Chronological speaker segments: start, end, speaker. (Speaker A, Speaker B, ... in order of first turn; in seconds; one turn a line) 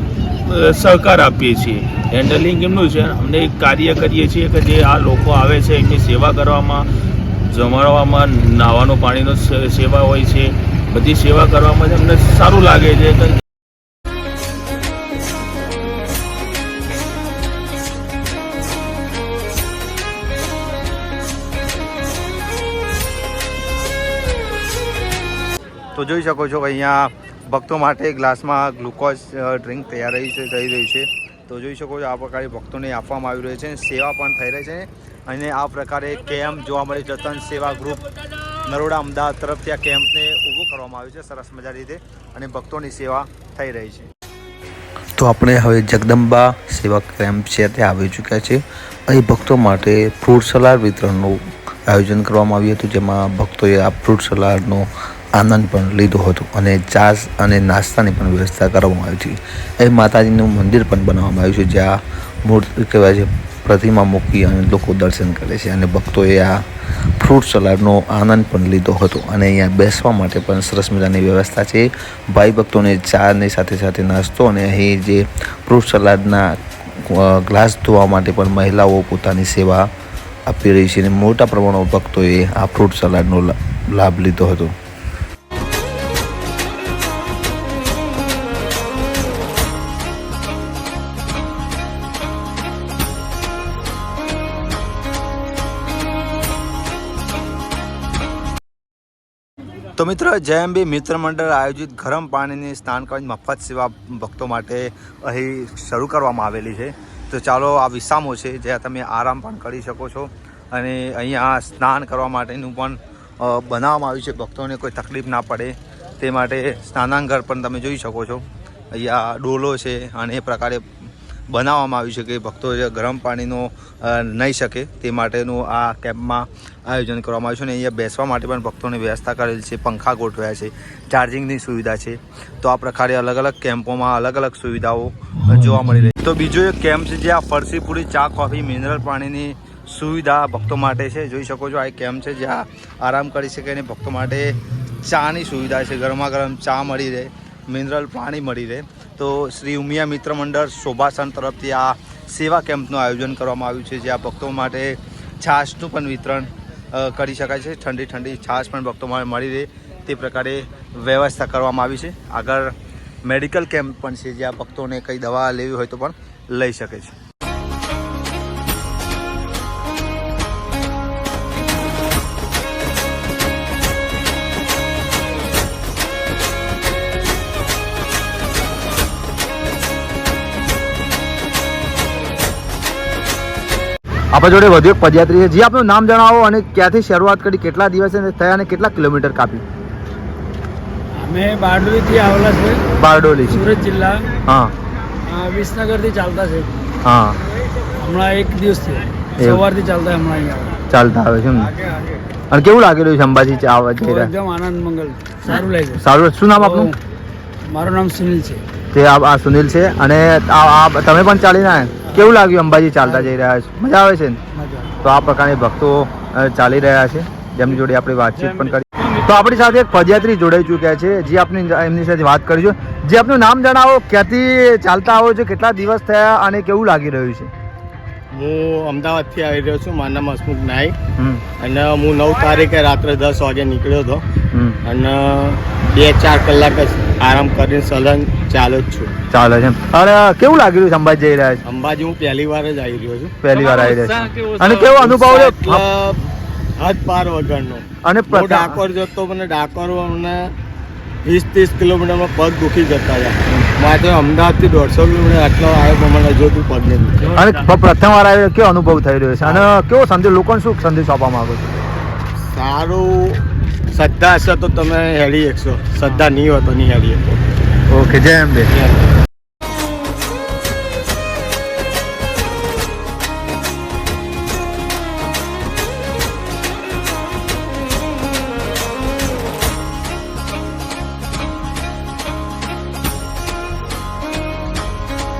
Speaker A: 0.5-6.9
Speaker A: 7.5-13.4
Speaker B: 25.9-44.1
Speaker C: 45.2-66.7
Speaker C: 67.2-79.9
Speaker C: 80.5-84.7
Speaker B: 100.0-162.7
Speaker B: 163.2-167.1
Speaker B: 184.3-189.6
Speaker D: 191.2-192.8
Speaker B: 193.0-193.7
Speaker D: 193.4-194.3
Speaker B: 194.4-194.7
Speaker D: 195.2-196.7
Speaker B: 197.0-197.4
Speaker D: 198.0-200.8
Speaker B: 199.4-199.7
Speaker B: 200.9-201.7
Speaker E: 201.6-202.2
Speaker B: 202.5-204.3
Speaker D: 204.0-206.0
Speaker B: 206.0-206.9
Speaker D: 206.6-206.9
Speaker D: 207.7-208.6
Speaker B: 208.9-214.4
Speaker D: 214.5-214.9
Speaker B: 215.0-227.5
Speaker D: 219.0-219.2
Speaker E: 228.3-231.0
Speaker B: 231.2-231.4
Speaker E: 231.6-234.2
Speaker B: 234.5-234.8
Speaker E: 234.8-239.1
Speaker B: 239.3-241.6
Speaker E: 241.7-250.5
Speaker B: 243.4-245.8
Speaker D: 243.5-243.8
Speaker B: 248.0-248.8
Speaker E: 251.2-257.4
Speaker B: 257.3-261.8
Speaker E: 259.4-259.7
Speaker E: 262.4-267.5
Speaker B: 267.9-268.7
Speaker E: 268.7-269.0